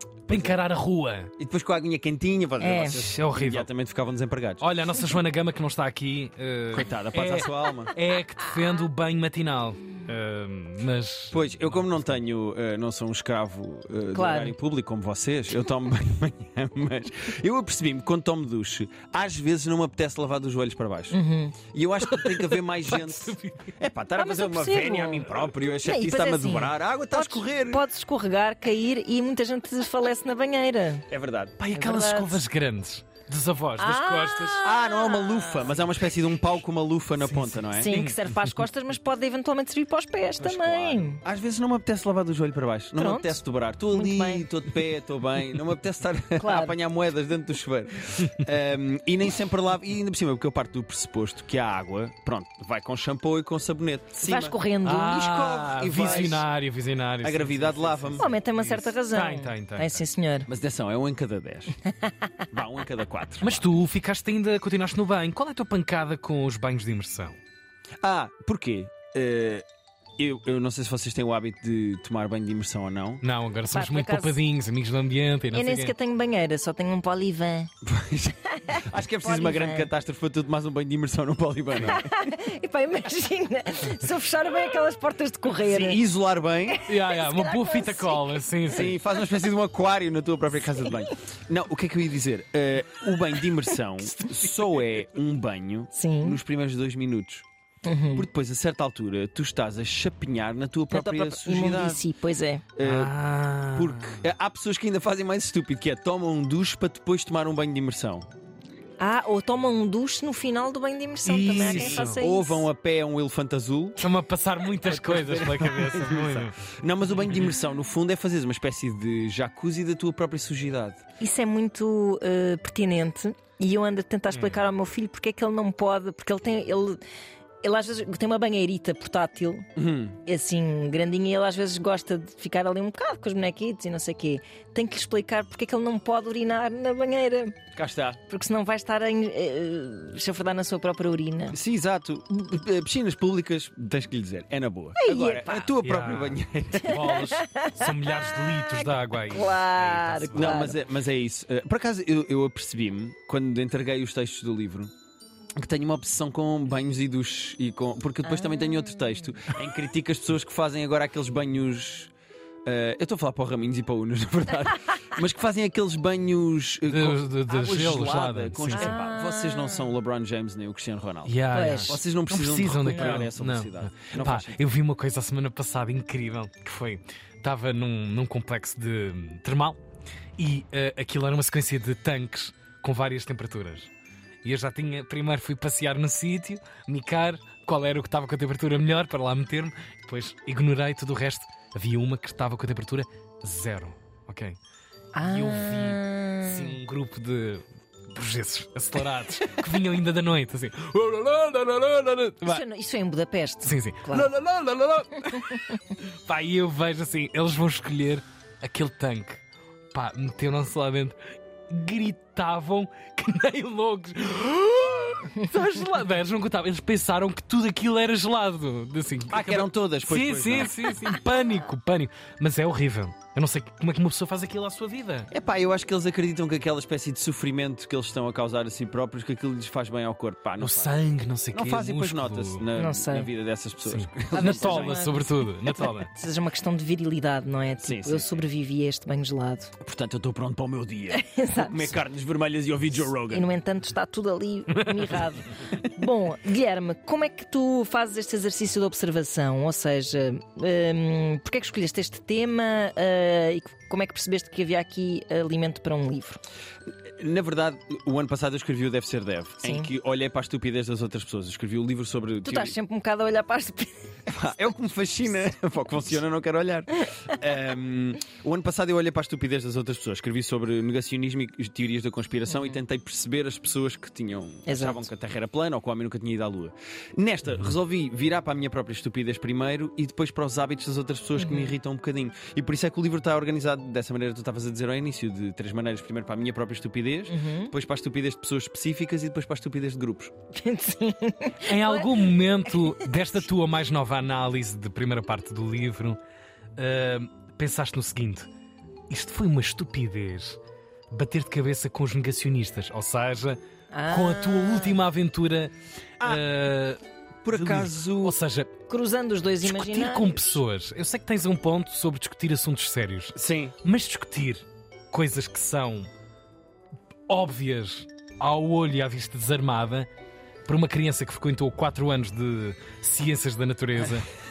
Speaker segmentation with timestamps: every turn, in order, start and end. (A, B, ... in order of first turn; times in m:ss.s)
0:00.3-0:01.3 A
0:00.3-0:00.6 B
0:01.4-0:04.7 B
0:02.6-0:03.1 C
0:02.9-0:03.7 A
0:04.6-0:11.9 A
0:06.7-0:07.9 B
0:11.3-0:21.2 B
0:14.1-0:14.6 C
0:21.1-0:21.6 C
0:21.7-0:27.8 B
0:22.0-0:23.7 A
0:24.2-0:31.0 C
0:31.1-0:31.6 B
0:31.6-0:34.6 A
0:31.7-0:32.4 C
0:33.8-0:35.8 C
0:34.6-0:38.0 B
0:37.2-0:38.6 A
0:37.7-0:41.2 C
0:40.4-0:56.4 B
0:43.0-0:44.5 C
0:46.4-0:46.8 C
0:54.2-0:55.2 C
0:54.8-1:00.0 A
0:56.0-0:56.4 C
0:57.2-0:58.2 B
0:58.2-1:00.5 C
1:00.5-1:01.8 B
1:02.5-1:03.7 B
1:03.4-1:07.4 A
1:08.0-1:09.6 B
1:10.2-1:13.2 B
1:13.2-1:15.9 A
1:13.7-1:14.4 C
1:15.5-1:17.7 C
1:17.8-1:22.1 B
1:18.6-1:19.9 C
1:21.8-1:26.0 C
1:25.6-1:26.8 B
1:26.7-1:28.2 C
1:26.8-1:29.0 A
1:28.7-1:37.4 B
1:35.9-1:36.4 C
1:37.8-1:38.3 C
1:38.1-1:42.0 B
1:40.9-1:42.6 C
1:42.8-1:43.1 B
1:42.8-1:44.2 A
1:43.7-1:48.3 B
1:49.0-1:52.6 C
1:51.2-1:52.2 A
1:51.6-1:54.0 B
1:54.0-1:56.6 A
1:54.8-2:01.0 B
2:01.2-2:07.0 C
2:04.3-2:04.6 A
2:07.6-2:09.7 C
2:09.8-2:10.2 B
2:10.2-2:17.6 C
2:17.8-2:18.2 B
2:18.2-2:21.6 C
2:21.5-2:27.0 B
2:25.0-2:25.7 C
2:25.8-2:30.7 A
2:26.9-2:30.8 C
2:30.3-2:34.9 B
2:35.6-2:42.1 B
2:38.2-2:39.2 C
2:42.7-2:54.6 B
2:46.9-2:49.0 A
2:48.7-2:49.9 C
2:51.3-2:59.8 A
2:51.5-2:52.0 C
2:52.8-2:53.3 C
3:00.4-3:03.9 A
3:04.4-3:14.6 A
3:15.1-3:16.8 C
3:15.2-3:22.6 A
3:22.4-3:24.3 C
3:23.6-3:29.4 A
3:29.9-3:31.2 A
3:31.7-3:45.3 A
3:39.3-3:40.9 B
3:45.3-3:50.9 B
3:50.6-3:52.6 A
3:51.5-3:55.2 B
3:52.8-3:53.3 C
3:53.9-3:56.1 A
3:54.3-3:59.7 C
3:57.8-3:58.4 B
3:59.8-4:03.5 B
4:01.1-4:01.9 C
4:03.3-4:16.4 C
4:04.8-4:05.2 A
4:17.2-4:22.8 B
4:19.6-4:19.9 C
4:22.4-4:24.0 C
4:24.3-4:50.3 B
4:32.5-4:32.8 C
4:34.6-4:35.1 C
4:41.4-4:41.8 C
4:47.3-4:47.7 C
4:50.5-4:53.0 C
4:51.6-4:56.2 A
4:56.8-4:58.5 A
4:59.1-5:00.6 A
5:01.1-5:08.7 A
5:03.9-5:05.0 C
5:07.4-5:08.4 B
5:08.9-5:10.6 C
5:09.6-5:16.1 A
5:13.3-5:13.8 B
5:17.3-5:20.1 A
5:20.6-5:24.2 A